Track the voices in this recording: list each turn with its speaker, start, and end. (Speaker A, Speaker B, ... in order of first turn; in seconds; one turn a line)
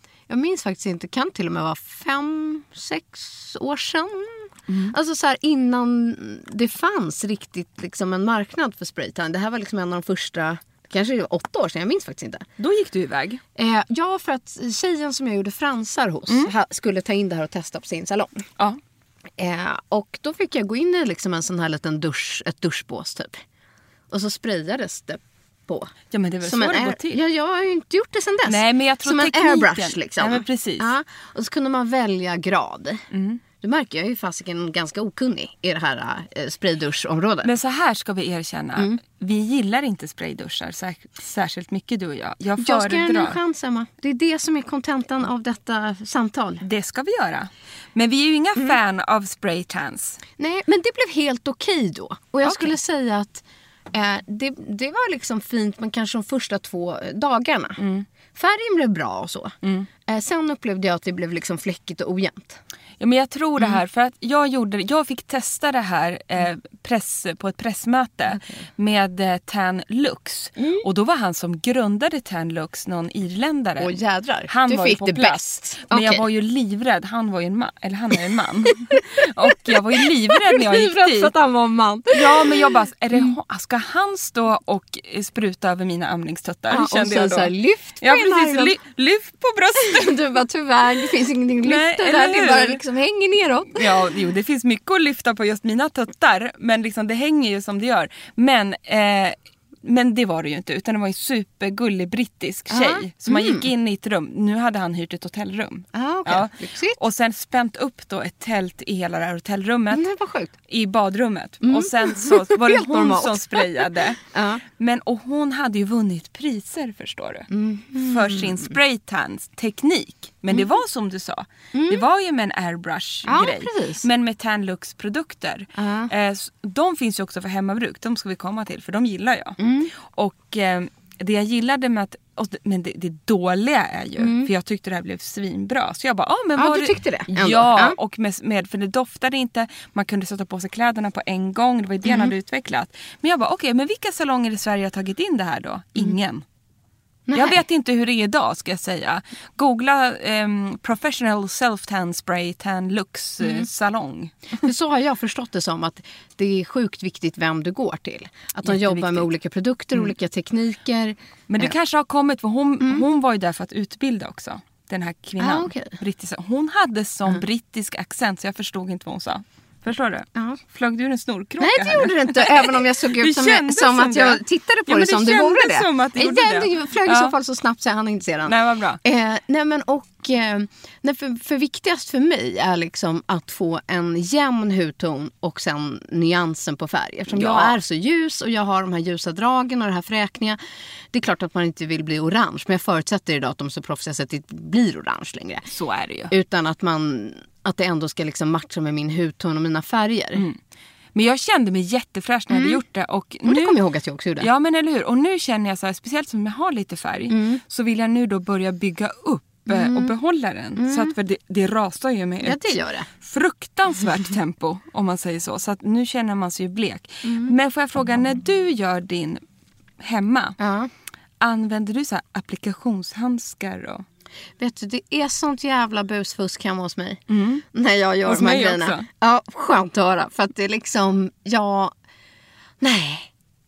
Speaker A: 0.3-12.5
Speaker B: 4.7-5.0
Speaker B: 12.6-13.4
Speaker A: 13.6-18.4
Speaker A: 19.4-23.4
Speaker A: 24.1-25.9
Speaker B: 26.1-27.2
Speaker A: 26.4-33.0
Speaker B: 28.5-30.9
Speaker B: 33.1-33.4
Speaker A: 33.6-37.5
Speaker B: 37.4-43.4
Speaker A: 42.6-46.6
Speaker B: 46.6-50.2
Speaker A: 50.4-57.8
Speaker B: 52.4-52.7
Speaker B: 57.8-58.1
Speaker A: 58.3-62.6
Speaker B: 59.6-59.9
Speaker B: 63.0-73.9
Speaker A: 68.3-68.6
Speaker A: 70.6-70.8
Speaker A: 73.8-76.2
Speaker B: 74.5-81.3
Speaker A: 78.9-83.4
Speaker B: 82.1-90.2
Speaker A: 86.7-88.8
Speaker A: 89.8-93.9
Speaker B: 91.6-92.8
Speaker B: 93.8-110.0
Speaker A: 102.7-103.7
Speaker A: 105.9-107.0
Speaker A: 109.9-110.5
Speaker B: 110.7-114.2
Speaker A: 111.6-114.6
Speaker B: 114.8-146.4
Speaker A: 117.5-118.7
Speaker A: 121.7-122.0
Speaker A: 123.2-124.1
Speaker A: 125.8-126.1
Speaker A: 129.6-129.9
Speaker A: 134.2-134.5
Speaker A: 136.6-138.0
Speaker A: 142.1-142.3
Speaker A: 147.3-147.6
Speaker B: 147.3-154.5
Speaker A: 153.4-153.7
Speaker A: 154.6-161.7
Speaker B: 158.7-159.3
Speaker B: 161.5-177.3
Speaker A: 165.4-166.0
Speaker A: 170.3-170.6
Speaker A: 171.6-190.6
Speaker B: 178.5-179.0
Speaker B: 187.3-187.8
Speaker A: 191.1-195.7
Speaker B: 195.7-196.3
Speaker A: 196.3-200.4
Speaker B: 201.2-203.8
Speaker A: 202.5-202.8
Speaker A: 203.4-204.5
Speaker B: 204.4-219.4
Speaker A: 207.3-207.6
Speaker A: 209.7-210.1
Speaker A: 210.8-211.1
Speaker A: 212.4-213.1
Speaker A: 217.2-217.6
Speaker B: 220.0-220.6
Speaker A: 220.6-220.9
Speaker B: 221.4-224.1
Speaker A: 224.6-227.2
Speaker B: 227.3-227.6
Speaker A: 227.7-231.9
Speaker B: 228.2-229.1
Speaker A: 232.8-233.3